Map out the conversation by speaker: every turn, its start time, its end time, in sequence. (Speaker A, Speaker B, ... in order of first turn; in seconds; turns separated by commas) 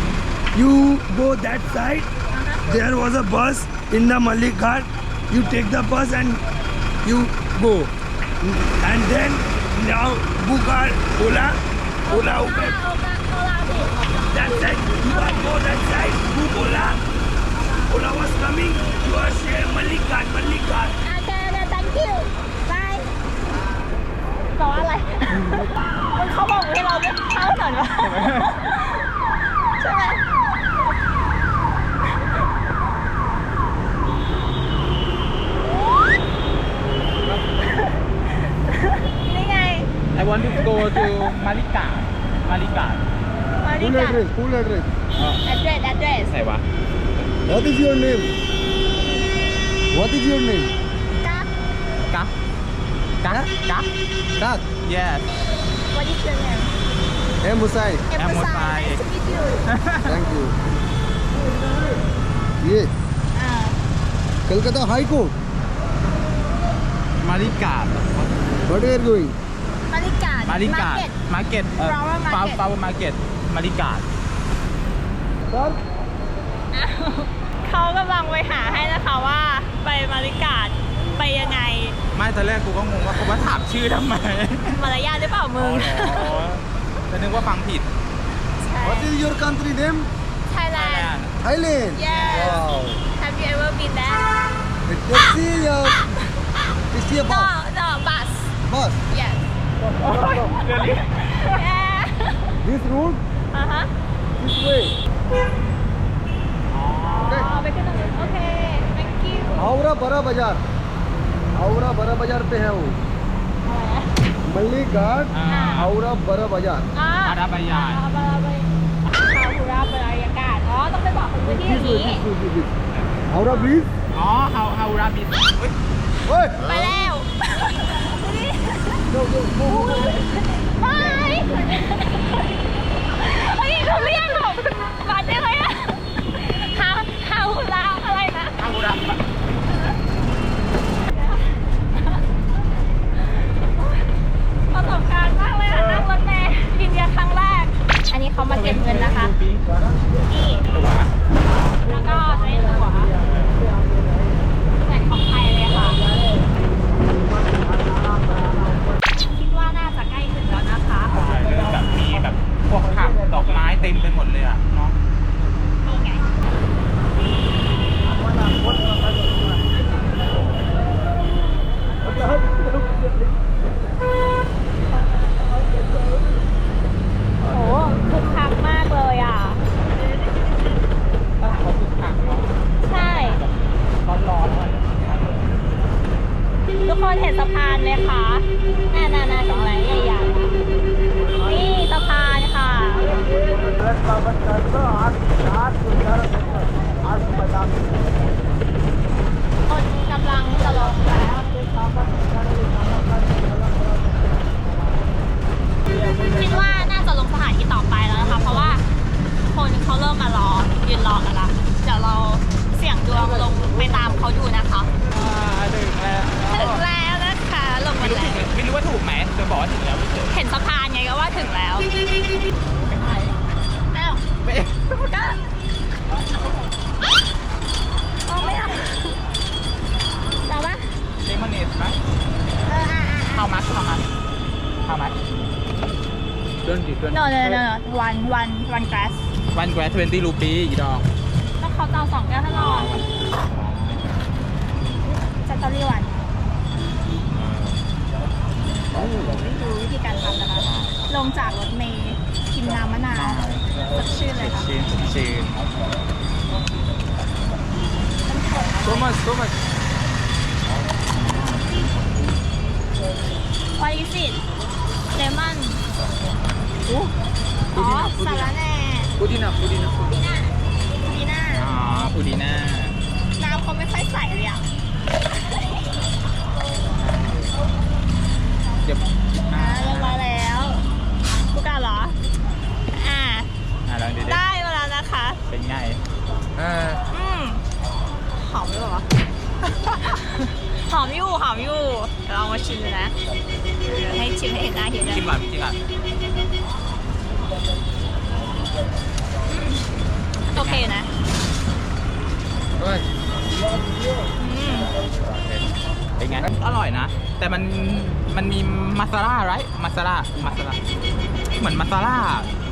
Speaker A: 0.5-2.1, Speaker B: 2.3-2.6, Speaker A: 2.7-6.4, Speaker A: 7.0-12.8, Speaker B: 12.1-13.9, Speaker A: 14.3-17.0, Speaker B: 15.0-15.5, Speaker A: 17.9-21.0, Speaker B: 21.0-23.1, Speaker B: 24.5-29.1, Speaker C: 28.0-28.5, Speaker B: 29.8-30.4, Speaker B: 37.5-39.9, Speaker C: 40.1-43.0, Speaker B: 40.6-41.1, Speaker B: 43.6-44.3, Speaker D: 43.8-44.9, Speaker C: 45.2-45.4, Speaker B: 45.4-46.3, Speaker C: 46.3-46.6, Speaker D: 47.5-48.3, Speaker D: 49.9-50.7, Speaker B: 51.2-51.5, Speaker C: 53.2-53.9, Speaker D: 54.4-54.6, Speaker C: 54.7-55.3, Speaker B: 55.9-56.8, Speaker D: 57.4-58.0, Speaker B: 58.1-59.7, Speaker C: 58.2-59.0, Speaker C: 59.7-60.1, Speaker D: 60.0-60.5, Speaker D: 62.6-62.9, Speaker B: 63.3-63.8, Speaker D: 64.5-65.3, Speaker C: 67.2-68.3, Speaker D: 68.7-69.4, Speaker B: 69.9-71.1, Speaker C: 70.5-74.1, Speaker B: 71.8-72.6, Speaker D: 75.5-75.8, Speaker B: 76.7-82.0, Speaker C: 82.1-84.8, Speaker B: 84.6-86.4, Speaker C: 85.6-87.9, Speaker B: 88.6-89.1, Speaker D: 88.8-90.1, Speaker B: 90.5-91.1, Speaker C: 90.8-91.4, Speaker D: 91.4-93.0, Speaker B: 91.9-92.7, Speaker C: 92.1-92.6, Speaker B: 93.2-94.3, Speaker D: 94.9-96.0, Speaker B: 95.9-96.2, Speaker D: 96.9-97.6, Speaker B: 97.3-98.5, Speaker D: 98.6-99.0, Speaker B: 99.1-99.5, Speaker D: 100.0-100.6, Speaker B: 100.0-102.6, Speaker C: 100.7-101.0, Speaker D: 102.6-103.2, Speaker B: 103.5-103.9, Speaker D: 104.4-104.9, Speaker C: 106.7-107.6, Speaker B: 107.0-109.7, Speaker D: 107.2-107.5, Speaker D: 109.5-110.6, Speaker D: 111.5-113.0, Speaker B: 113.7-114.2, Speaker D: 114.4-116.9, Speaker C: 115.3-115.9, Speaker B: 115.5-115.9, Speaker B: 117.0-118.7, Speaker C: 117.2-118.0, Speaker B: 119.2-122.3, Speaker D: 121.5-122.7, Speaker C: 122.9-123.2, Speaker D: 123.3-123.9, Speaker B: 123.4-123.8, Speaker C: 124.1-125.8, Speaker D: 126.3-127.0, Speaker B: 126.6-129.1, Speaker D: 129.2-129.8, Speaker B: 129.6-132.5, Speaker B: 133.1-138.6, Speaker C: 138.6-139.3, Speaker B: 141.1-142.2, Speaker B: 143.2-144.2, Speaker B: 144.7-149.3, Speaker C: 148.5-149.7, Speaker B: 150.3-150.7, Speaker C: 150.7-151.1, Speaker B: 151.7-153.1, Speaker C: 153.2-153.6, Speaker B: 154.7-156.0, Speaker B: 159.1-161.2, Speaker C: 161.1-165.0, Speaker B: 165.8-166.3, Speaker B: 174.9-175.4, Speaker B: 177.5-179.6, Speaker C: 181.4-185.4, Speaker B: 182.9-183.4, Speaker B: 186.8-190.6, Speaker B: 191.4-193.2, Speaker B: 199.7-201.5, Speaker B: 206.2-208.8, Speaker B: 209.5-214.9, Speaker C: 215.0-216.8, Speaker B: 216.5-218.5, Speaker C: 218.0-220.3, Speaker B: 220.3-221.9, Speaker C: 222.7-223.4, Speaker B: 223.9-224.2, Speaker C: 224.4-225.0, Speaker B: 225.0-225.4, Speaker B: 228.3-229.2, Speaker B: 230.5-231.0, Speaker C: 231.2-232.0, Speaker B: 232.7-233.5, Speaker C: 233.3-234.1, Speaker C: 234.8-235.2, Speaker C: 236.6-237.6, Speaker B: 237.1-239.2, Speaker C: 239.5-241.1, Speaker B: 241.6-243.0, Speaker C: 242.5-244.2, Speaker B: 245.4-246.2, Speaker C: 247.3-247.9, Speaker C: 248.8-249.5, Speaker B: 249.2-254.7, Speaker C: 250.6-251.1, Speaker C: 253.1-253.7, Speaker C: 254.4-255.8, Speaker B: 258.3-259.2, Speaker C: 258.9-259.7, Speaker C: 261.1-261.8, Speaker B: 263.8-264.4, Speaker B: 265.2-265.8, Speaker B: 266.9-267.1, Speaker B: 267.7-269.1, Speaker C: 267.8-268.4, Speaker C: 269.2-270.2, Speaker B: 270.2-271.8, Speaker C: 271.6-273.0, Speaker B: 273.4-274.6, Speaker C: 277.0-277.6, Speaker C: 278.8-280.2, Speaker B: 279.5-280.8, Speaker B: 281.5-282.2, Speaker B: 282.9-283.5, Speaker C: 283.9-284.4, Speaker B: 284.2-285.4, Speaker C: 285.5-286.0, Speaker C: 286.6-287.0, Speaker B: 287.1-287.6, Speaker B: 288.4-289.1, Speaker B: 289.8-293.1, Speaker B: 293.9-295.3, Speaker C: 295.1-295.8, Speaker B: 299.5-299.8, Speaker B: 300.5-301.1, Speaker C: 300.5-300.9, Speaker D: 302.8-303.1, Speaker B: 304.4-304.9, Speaker C: 305.3-305.6, Speaker C: 306.2-310.8, Speaker C: 311.6-312.5